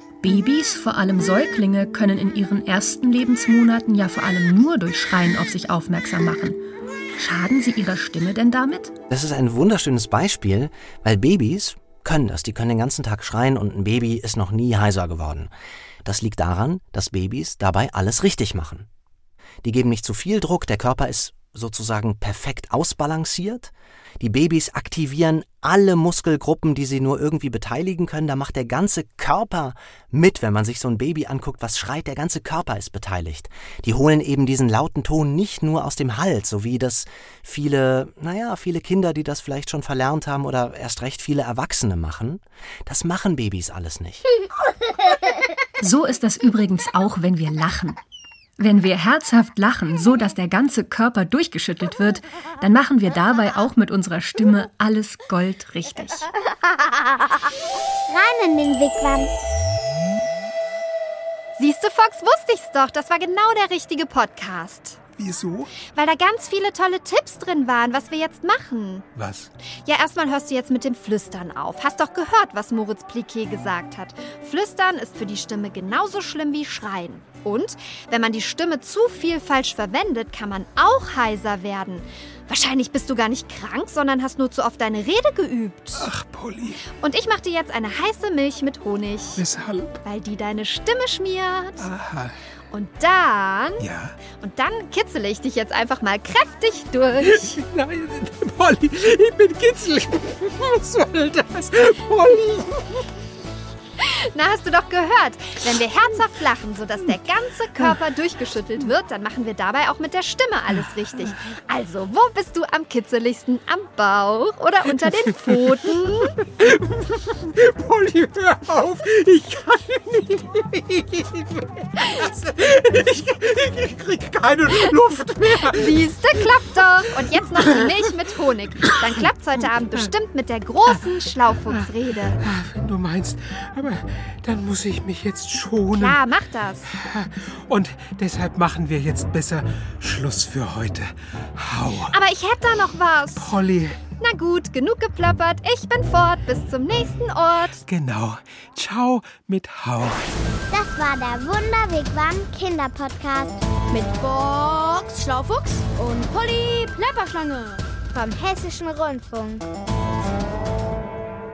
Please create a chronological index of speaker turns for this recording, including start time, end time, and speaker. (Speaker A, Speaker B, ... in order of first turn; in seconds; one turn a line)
Speaker A: 0.2-6.6
Speaker A: 7.2-8.9
Speaker B: 9.1-15.5
Speaker B: 16.0-18.9
Speaker B: 19.6-44.3
Speaker A: 45.8-48.0
Speaker A: 48.6-56.3
Speaker C: 58.1-59.3
Speaker D: 61.6-65.0
Speaker E: 65.2-65.7
Speaker D: 65.9-69.1
Speaker E: 69.1-69.5
Speaker D: 69.8-86.1
Speaker E: 86.0-86.9
Speaker D: 87.0-89.4
Speaker E: 89.4-90.0
Speaker D: 90.0-91.9
Speaker E: 91.8-92.4
Speaker D: 92.7-97.6
Speaker E: 93.8-94.2
Speaker E: 97.2-103.0
Speaker D: 104.0-116.3
Speaker E: 115.3-115.6
Speaker E: 116.2-128.1
Speaker D: 125.7-132.4
Speaker E: 128.8-129.2
Speaker E: 132.4-136.2
Speaker D: 135.9-136.9
Speaker E: 136.9-142.2
Speaker D: 142.1-143.5
Speaker E: 143.4-144.0
Speaker D: 144.2-147.8
Speaker E: 147.8-150.3
Speaker C: 150.7-153.6
Speaker F: 153.9-157.9
Speaker C: 158.1-159.7